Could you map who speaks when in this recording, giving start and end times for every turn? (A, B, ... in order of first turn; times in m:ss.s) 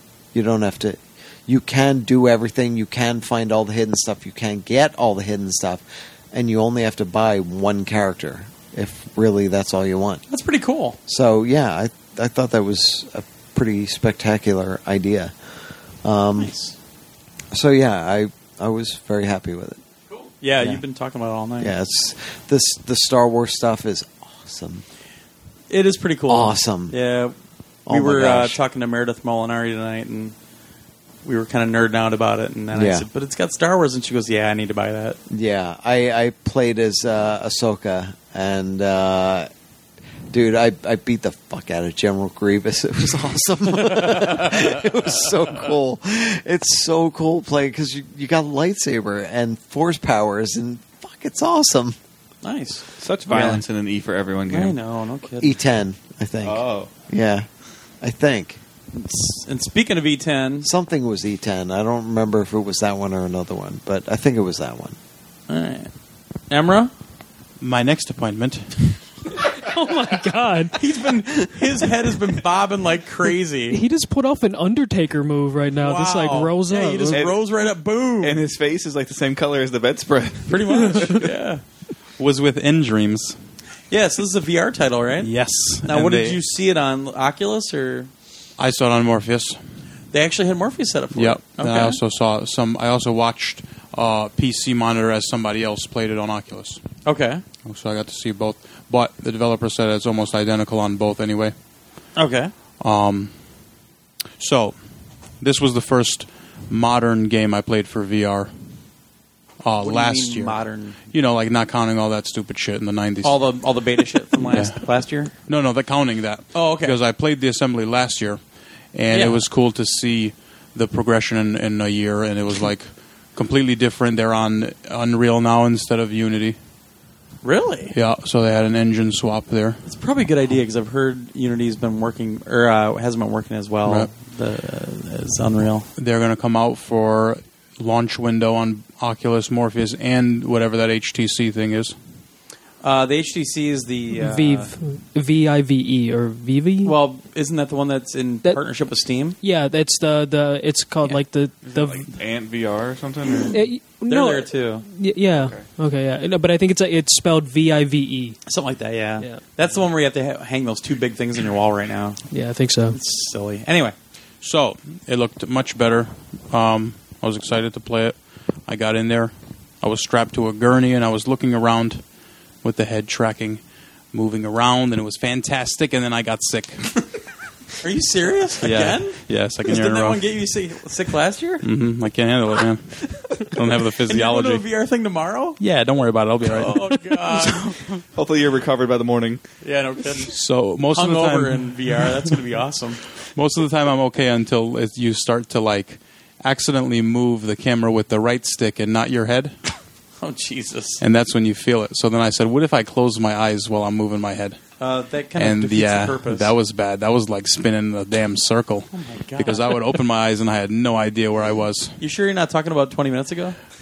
0:00.3-0:10.2 A
0:10.3-0:11.0 B
0:11.1-0:15.3 A
0:16.0-0:16.5 A
0:16.4-0:16.7 B
0:17.5-0:19.8 A
0:20.1-0:21.7 B
0:21.6-0:24.8 A
0:25.7-0:27.4 B
0:26.3-0:27.0 A
0:27.9-0:28.6 A
0:27.9-0:30.3 B
0:31.2-0:35.2 B
0:32.7-0:33.1 A
0:35.3-0:39.5 A
0:40.3-0:52.0 A
0:52.4-0:53.6 B
0:53.0-0:54.8 C
0:54.5-0:55.6 B
0:55.4-0:57.5 A
0:56.4-0:56.9 C
0:58.0-0:58.6 A
0:58.9-1:00.7 B
1:00.6-1:05.0 A
1:05.5-1:05.9 B
1:06.5-1:06.9 B
1:07.6-1:09.0 D
1:09.4-1:10.8 E
1:10.8-1:13.8 B
1:13.7-1:17.3 E
1:15.8-1:18.4 B
1:17.1-1:17.4 C
1:18.2-1:21.3 C
1:20.5-1:21.6 B
1:22.2-1:23.4 D
1:23.9-1:28.1 B
1:25.2-1:26.4 D
1:28.6-1:29.6 D
1:30.1-1:32.0 B
1:31.1-1:36.8 D
1:37.0-1:37.4 B
1:37.6-1:41.6 D
1:42.2-1:42.5 B
1:42.8-1:43.3 D
1:44.4-1:44.8 D
1:45.4-1:48.5 D
1:49.6-1:53.6 D
1:49.8-1:51.0 B
1:53.2-1:55.3 B
1:54.4-1:54.8 D
1:55.5-1:58.4 D
1:56.5-1:57.0 B
1:58.9-2:06.6 D
1:59.1-1:59.4 B
2:07.4-2:08.0 B
2:07.9-2:09.8 D
2:09.9-2:15.9 B
2:16.0-2:22.0 D
2:22.8-2:24.7 B
2:24.2-2:27.0 E
2:26.8-2:29.4 B
2:29.4-2:32.1 E
2:31.6-2:33.6 C
2:33.5-2:38.4 E
2:34.1-2:34.9 B
2:35.4-2:35.6 C
2:38.5-2:42.3 B
2:42.3-2:43.0 E
2:42.9-2:44.0 B
2:44.4-2:52.0 D
2:52.6-2:53.6 D
2:54.1-2:57.0 D
2:57.8-3:01.6 B
2:58.6-3:00.2 D
3:01.6-3:04.6 D
3:04.1-3:05.6 B
3:05.6-3:07.9 D
3:06.4-3:07.8 B
3:08.2-3:09.4 C
3:09.6-3:10.3 B
3:10.3-3:12.1 D
3:10.9-3:13.1 B
3:13.4-3:19.6 D
3:20.2-3:21.0 B
3:21.0-3:24.6 D
3:24.8-3:26.5 B
3:25.4-3:32.0 D
3:28.9-3:29.8 B
3:32.0-3:33.6 B